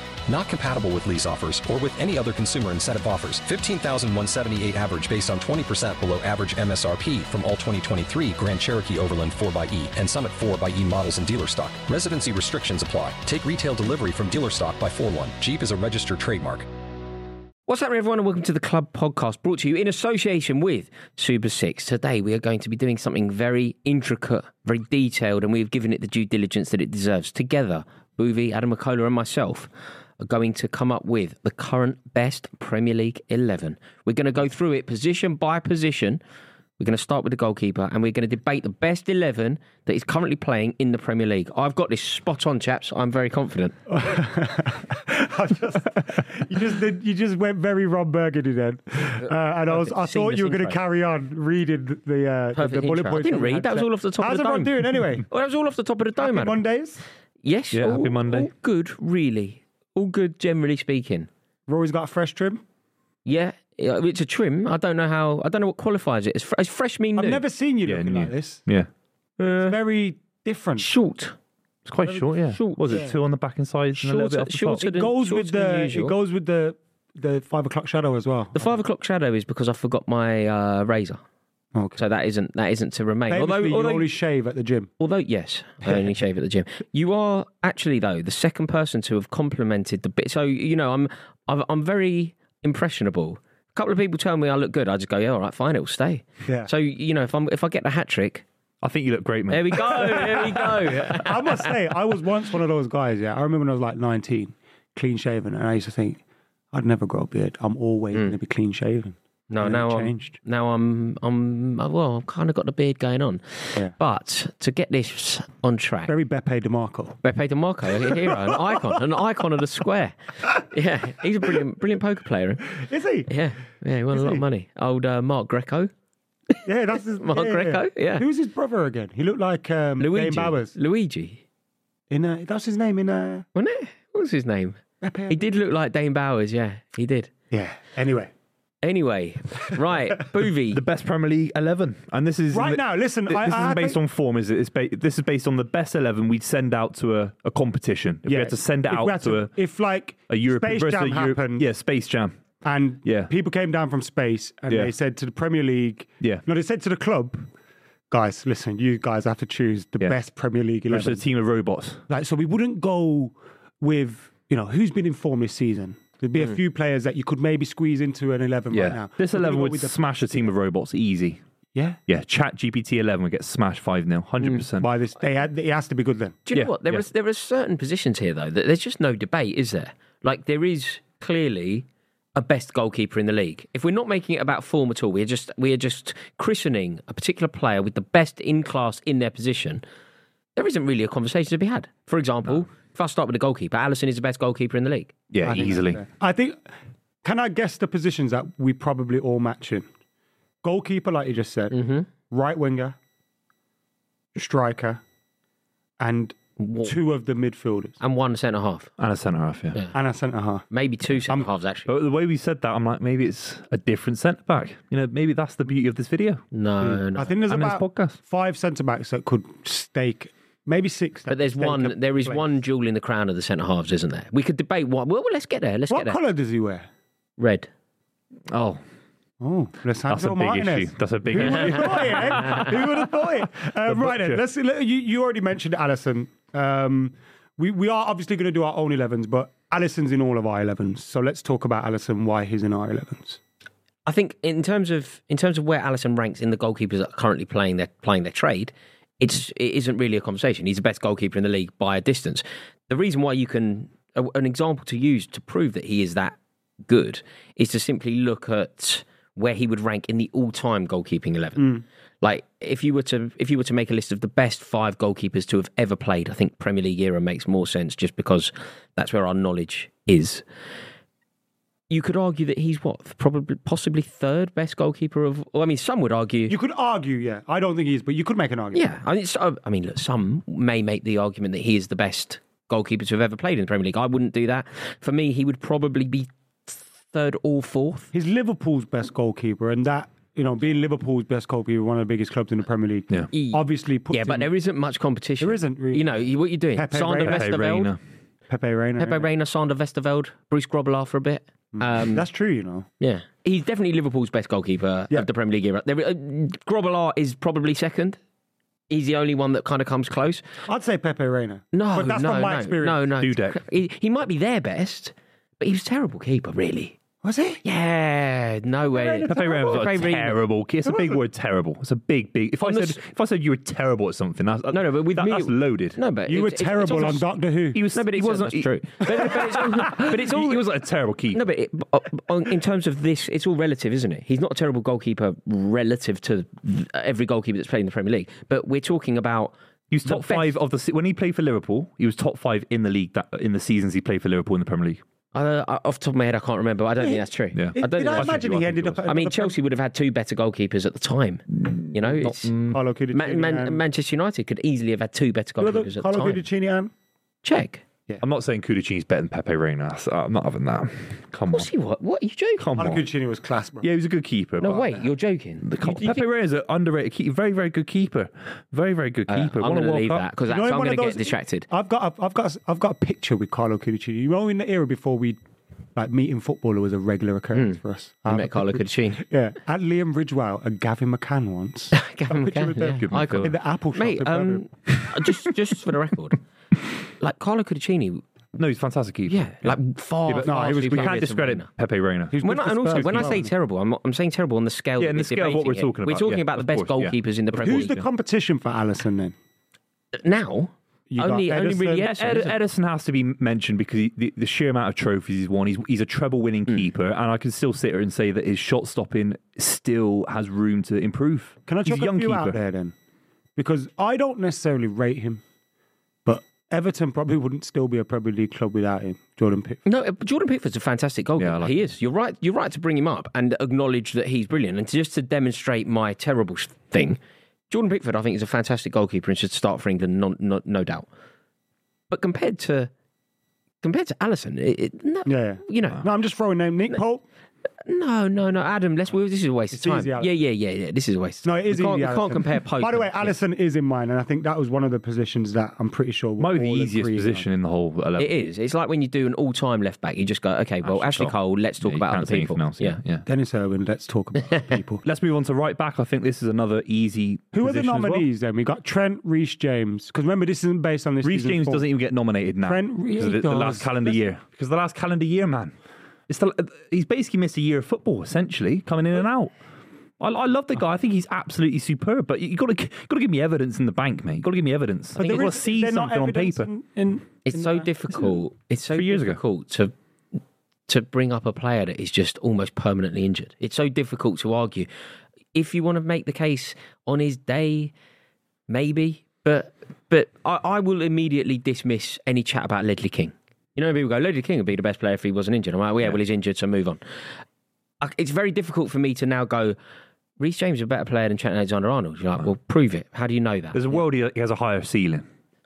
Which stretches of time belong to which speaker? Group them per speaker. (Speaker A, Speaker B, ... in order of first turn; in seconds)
Speaker A: 0.3-16.7
Speaker B: 17.7-36.2, 36.8-43.8, 49.2-50.8, 52.5-56.6, 57.4-61.3, 63.2-67.4, 69.4-69.8, 70.8-71.3, 72.5-73.1, 74.0-76.1, 78.5-81.2, 82.0-84.1, 85.0-98.4, 99.5-101.8, 109.5-116.1, 117.2-122.7, 123.3-125.9, 127.2-128.2, 130.0-131.4, 133.5-137.3, 138.8-140.8, 176.5-189.8, 190.6-195.1, 201.7-202.1, 206.6-206.9, 208.0-208.9, 210.7-211.9, 216.5-217.4, 221.3-226.2, 227.4-227.7, 244.1-270.4, 271.9-276.6, 278.7-288.1, 293.3-297.9, 299.0-302.2, 303.0-308.2, 308.9-310.4, 311.7-316.9, 317.6-320.4, 322.6-323.0, 324.7-327.3, 327.9-330.6, 331.3-340.5, 345.3-348.4, 349.0-356.4, 357.4-357.8, 361.5-362.7, 364.6-366.2, 369.3-371.7, 377.5-379.2, 381.9-386.4, 387.2-388.2, 389.3-391.7, 392.4-398.1, 400.1-402.5, 419.9-427.2, 427.7-431.1, 432.1-432.9, 433.8-436.0, 437.8-443.3, 448.2-453.0, 475.2-475.5, 477.4-479.9, 480.9-484.9, 485.5-487.9, 488.7-497.0, 498.0-499.8, 500.4-504.0
Speaker C: 43.9-55.2, 56.2-57.0, 61.7-62.6, 67.2-68.6, 69.6-70.9, 72.9-73.1, 74.8-78.6, 81.7-82.0, 83.3-84.9, 100.8-106.2, 106.7-110.4, 116.1-117.2, 122.8-123.3, 124.1-124.4, 126.6-130.7, 132.1-133.4, 135.0-135.4, 137.5-138.3, 142.5-144.0, 148.3-151.6, 152.6-157.5, 158.1-161.2, 162.1-170.5, 174.8-176.4, 195.4-196.6, 197.2-199.9, 200.6-202.9, 204.3-205.0, 206.0-208.0, 209.9-210.7, 216.8-222.4, 225.9-226.9, 229.4-243.4, 261.6-261.8, 276.5-278.9, 288.1-294.5, 295.4-296.1, 296.7-297.5, 298.5-299.3, 301.7-302.9, 310.6-313.1, 317.2-317.6, 318.9-319.8, 320.9-321.2, 326.2-327.8, 347.7-349.6, 352.7-353.8, 355.6-356.9, 362.8-363.9, 370.5-375.4, 375.9-384.7, 390.4-391.3, 392.3-393.5, 397.5-399.3, 401.1-402.1, 411.7-412.9, 413.6-415.4, 416.2-419.8, 435.3-437.2, 439.7-440.3, 441.4-447.4, 453.2-455.0, 457.5-461.8, 462.6-464.2, 475.2-477.9
Speaker D: 57.7-58.5, 67.8-68.9, 71.8-74.8, 98.8-100.8, 140.7-149.5, 150.3-152.3, 153.0-153.3, 160.9-162.0, 168.7-171.4, 172.1-174.9, 176.5-177.0, 195.3-196.0, 209.0-209.8, 211.9-216.4, 217.5-218.2, 228.5-228.8, 230.1-233.1, 233.8-234.4, 297.2-298.0, 313.2-313.6, 319.3-326.0, 327.7-331.4, 339.9-345.0, 347.5-349.0, 351.8-352.6, 358.2-361.7, 362.6-363.1, 363.8-365.0, 365.6-370.3, 383.0-383.5, 388.5-392.4, 395.0-397.1, 402.0-412.6, 421.4-421.8, 446.4-448.3, 450.8-453.2, 455.0-458.3, 461.2-465.7, 466.3-469.5, 470.2-476.7, 478.9-479.4, 503.7-505.2